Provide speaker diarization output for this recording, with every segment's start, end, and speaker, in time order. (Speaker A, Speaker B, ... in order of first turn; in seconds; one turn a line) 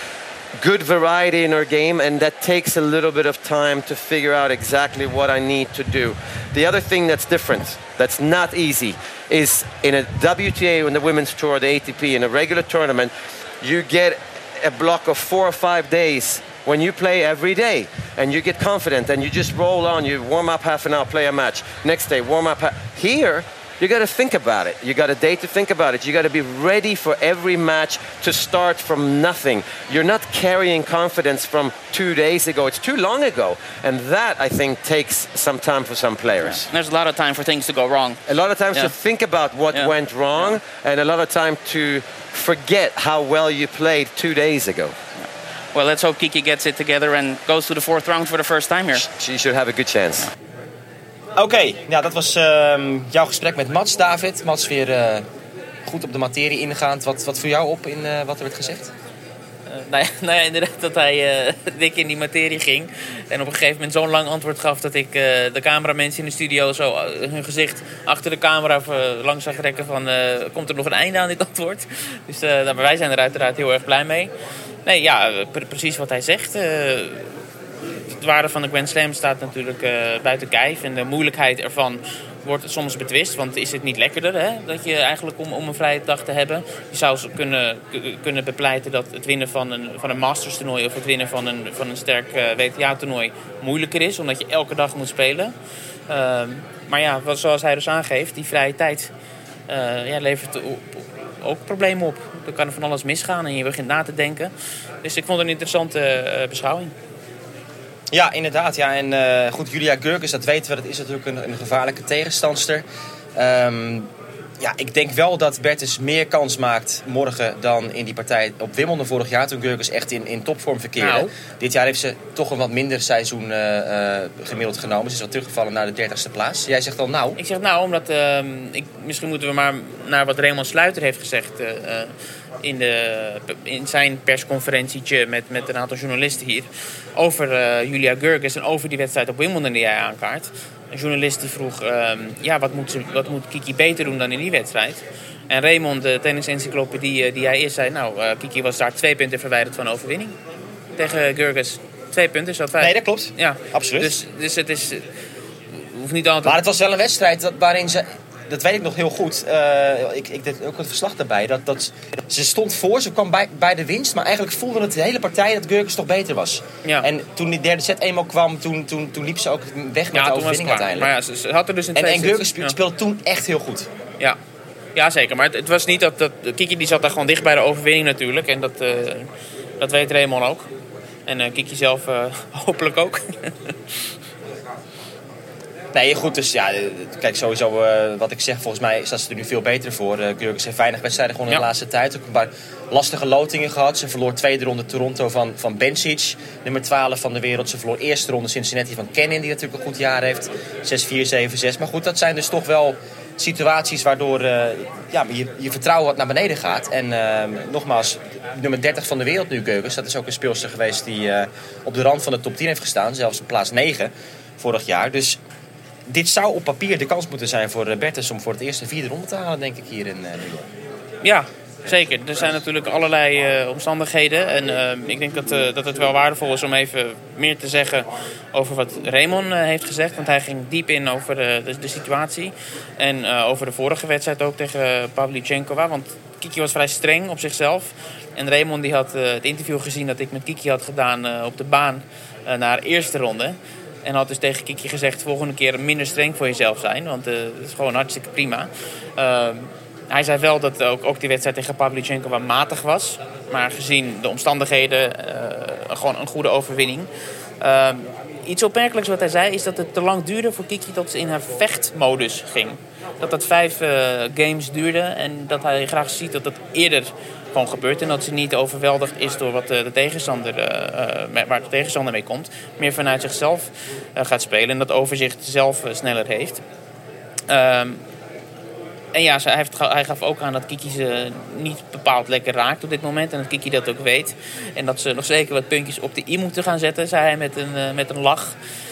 Speaker A: 0.6-36.7
Speaker B: 36.4-38.2
Speaker A: 38.2-45.0
Speaker B: 39.7-40.6
Speaker B: 45.2-49.0
Speaker A: 48.9-50.3
Speaker C: 51.4-55.2
Speaker C: 55.8-58.9
Speaker D: 59.7-74.3
Speaker D: 74.8-77.3
Speaker D: 78.2-95.5
Speaker D: 96.1-99.1
Speaker D: 99.7-104.5
Speaker D: 105.0-106.9
Speaker C: 108.1-112.8
Speaker C: 113.3-127.4
Speaker D: 121.0-121.3
Speaker D: 127.4-150.3
Speaker D: 150.9-155.0
Speaker C: 152.8-154.1
Speaker D: 155.7-156.6
Speaker C: 156.4-171.1
Speaker D: 170.1-172.8
Speaker C: 171.9-173.9
Speaker D: 174.9-179.3
Speaker D: 179.8-180.7
Speaker D: 181.3-183.7
Speaker C: 185.9-215.4
Speaker C: 216.1-220.7
Speaker D: 221.2-257.1
Speaker D: 257.6-276.6
Speaker D: 277.5-278.0
Speaker D: 279.1-288.6